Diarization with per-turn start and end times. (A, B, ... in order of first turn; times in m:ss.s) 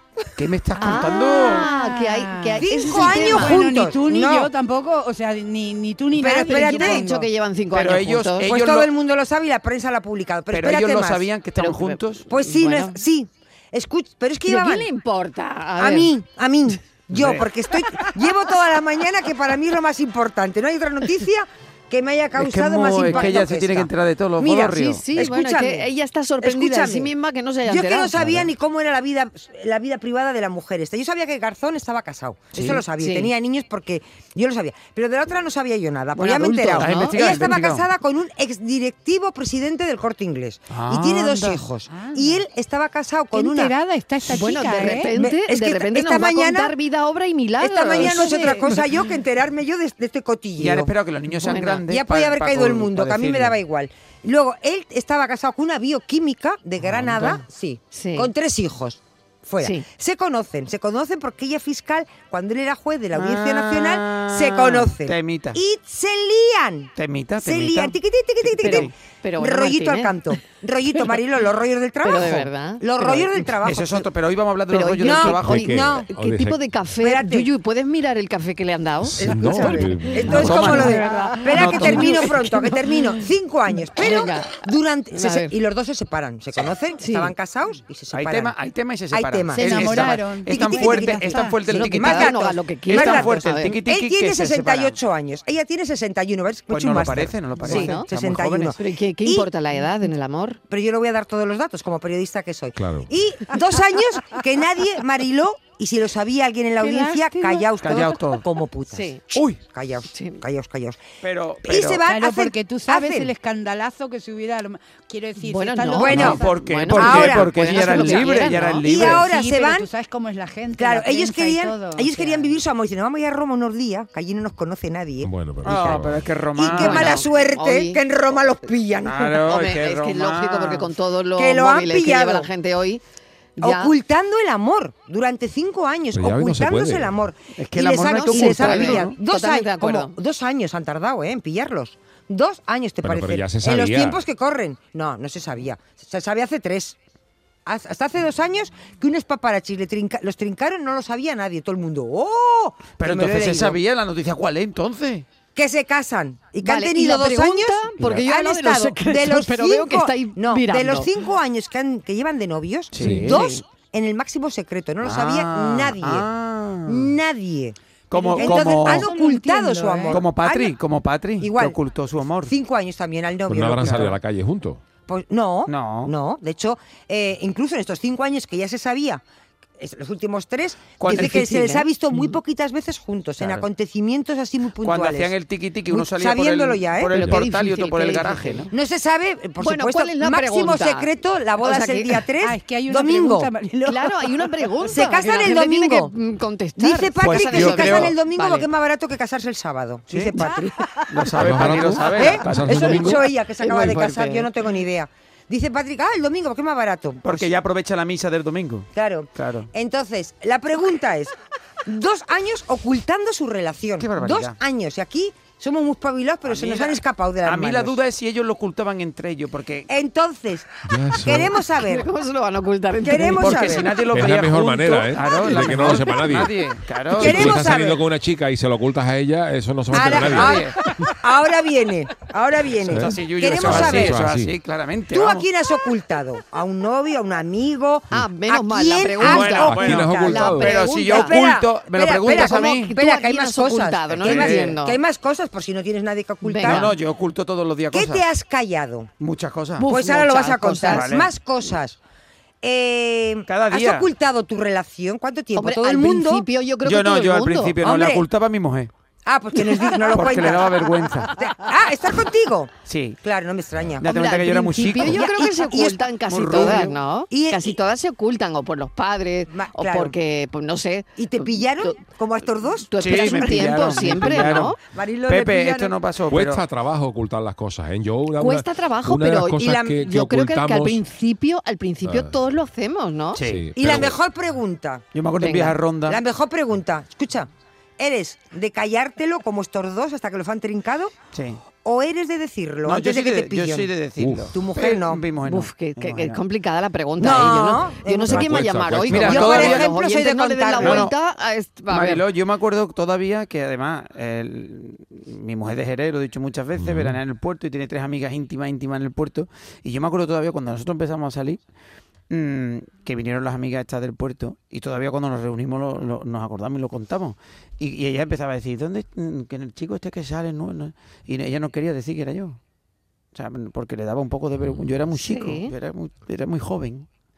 0:00.4-0:01.7 A
0:00.8-0:03.7 B
0:00.9-0:07.2 C
0:02.6-0:04.5 D
0:06.2-0:07.0 D
0:06.4-0:08.5 B
0:07.7-0:08.9 A
0:08.4-0:11.3 D
0:10.5-0:12.2 A
0:11.6-0:13.0 B
0:12.3-0:14.9 D
0:14.4-0:16.1 B
0:15.8-0:25.9 D
0:17.1-0:17.5 A
0:22.3-0:25.3 A
0:24.9-0:28.2 B
0:26.4-0:27.1 D
0:27.6-0:43.7 D
0:28.2-0:28.5 A
0:32.5-0:32.8 A
0:33.0-0:33.3 B
0:36.2-0:37.8 A
0:36.8-0:37.2 B
0:40.7-0:41.7 A
0:41.9-0:42.4 C
0:43.3-0:45.1 C
0:44.3-0:48.8 B
0:45.1-0:46.7 D
0:47.6-0:50.9 D
0:48.0-0:48.7 C
0:50.6-0:53.6 A
0:51.4-0:51.8 B
0:51.5-1:14.1 D
0:56.8-0:57.4 A
0:57.9-0:58.3 B
0:59.6-0:59.8 B
1:03.1-1:05.6 A
1:07.0-1:08.9 A
1:08.6-1:10.3 B
1:12.0-1:13.5 B
1:13.6-1:15.8 A
1:14.7-1:23.2 B
1:15.0-1:16.1 D
1:15.4-1:16.6 E
1:17.0-1:17.5 D
1:19.0-1:20.9 E
1:19.2-1:28.5 D
1:19.3-1:22.4 A
1:21.0-1:21.8 C
1:24.0-1:25.5 B
1:27.0-1:27.3 B
1:28.1-1:35.0 A
1:29.1-1:39.5 D
1:29.6-1:31.6 C
1:31.6-1:33.8 B
1:36.7-1:38.7 A
1:37.6-1:38.1 B
1:38.8-1:40.6 B
1:40.7-1:51.0 D
1:42.8-1:43.1 E
1:46.8-1:48.0 C
1:47.8-1:48.4 A
1:48.9-1:49.3 B
1:49.3-1:49.6 A
1:50.1-1:50.4 B
1:51.2-1:52.0 A
1:51.6-1:53.3 D
1:52.1-2:02.5 C
1:55.4-1:58.8 B
1:56.0-1:56.4 D
1:56.1-1:59.3 A
1:57.0-1:57.5 D
1:58.8-1:59.9 D
2:00.8-2:05.8 D
2:05.2-2:06.3 E
2:05.6-2:07.3 A
2:06.5-2:09.3 D
2:06.7-2:08.0 B
2:09.0-2:10.9 A
2:09.3-2:13.0 B
2:11.3-2:12.5 D
2:13.6-2:13.9 B
2:13.6-2:27.0 D
2:16.1-2:17.2 E
2:17.6-2:19.2 A
2:18.1-2:20.1 B
2:23.0-2:24.2 E
2:27.6-2:33.8 D
2:33.0-2:35.2 A
2:35.5-2:46.3 D
2:36.6-2:41.1 B
2:42.9-2:43.4 A
2:43.0-2:43.3 E
2:43.2-2:43.6 B
2:45.0-2:47.1 A
2:46.9-2:47.8 D
2:48.1-2:49.1 A
2:48.3-2:50.2 C
2:48.3-2:50.8 D
2:50.1-2:52.5 A
2:51.4-2:51.8 D
2:52.4-2:54.1 D
2:53.5-2:54.8 E
2:53.8-2:54.1 A
2:55.1-2:59.2 D
2:55.7-2:56.1 A
2:59.8-3:05.3 D
3:01.0-3:01.8 A
3:01.1-3:01.8 B
3:03.4-3:03.6 A
3:04.8-3:08.7 A
3:05.9-3:07.4 D
3:07.1-3:08.7 B
3:08.7-3:13.5 D
3:09.6-3:12.2 B
3:12.4-3:14.5 C
3:13.8-3:18.7 B
3:14.9-3:16.1 D
3:16.8-3:20.7 D
3:17.2-3:18.1 A
3:20.1-3:20.4 A
3:20.4-3:21.1 C
3:21.1-3:24.5 A
3:21.4-3:23.3 E
3:22.1-3:27.5 D
3:27.2-3:29.7 A
3:28.9-3:31.3 D
3:31.8-3:38.0 D
3:34.0-3:34.6 A
3:36.4-3:39.9 A
3:39.9-3:40.7 D
3:40.8-3:41.6 E
3:41.2-3:42.1 D
3:41.8-3:43.7 B
3:43.0-3:44.0 D
3:43.2-3:47.7 A
3:44.1-3:46.6 E
3:47.1-3:50.6 E
3:47.1-3:48.0 D
3:49.9-3:54.2 D
3:49.9-3:50.8 A
3:52.8-3:55.5 A
3:52.9-3:54.5 E
3:55.1-4:06.9 D
3:58.1-4:01.4 B
3:59.2-4:02.9 A
3:59.6-4:00.7 E
4:02.2-4:05.0 B
4:04.1-4:04.8 A
4:06.4-4:06.9 B
4:06.6-4:08.2 A
4:07.9-4:09.1 D
4:09.2-4:09.9 A
4:09.8-4:11.1 B
4:09.8-4:12.0 D
4:10.8-4:11.3 A
4:12.6-4:16.4 D
4:13.5-4:14.1 A
4:15.6-4:17.8 B
4:16.8-4:18.9 A
4:17.8-4:18.3 D
4:19.2-4:27.8 D
4:20.1-4:21.3 A
4:22.8-4:23.2 A
4:24.0-4:25.3 A
4:24.1-4:32.0 B
4:26.3-4:27.0 A
4:29.5-4:30.1 D
4:31.2-4:36.0 D
4:32.9-4:34.8 B
4:33.0-4:36.6 A
4:36.3-4:41.0 E
4:38.4-4:43.4 B
4:39.6-4:40.0 D
4:42.0-4:42.4 E
4:43.3-4:44.1 A
4:43.4-4:44.1 E
4:43.8-4:45.0 D
4:45.1-4:46.2 A
4:45.4-4:45.8 B
4:46.1-4:51.1 D
4:51.3-4:51.6 A
4:51.7-4:53.9 D
4:52.8-4:56.4 A
4:54.2-4:54.5 E
4:54.5-4:55.2 D
4:55.4-5:02.2 B
4:57.2-5:01.1 D
4:58.2-4:59.6 E
4:59.0-5:00.0 A
5:00.8-5:01.1 A
5:01.9-5:11.6 A
5:06.8-5:07.2 E
5:12.3-5:22.6 A
5:23.3-5:27.1 A
5:25.1-5:25.7 B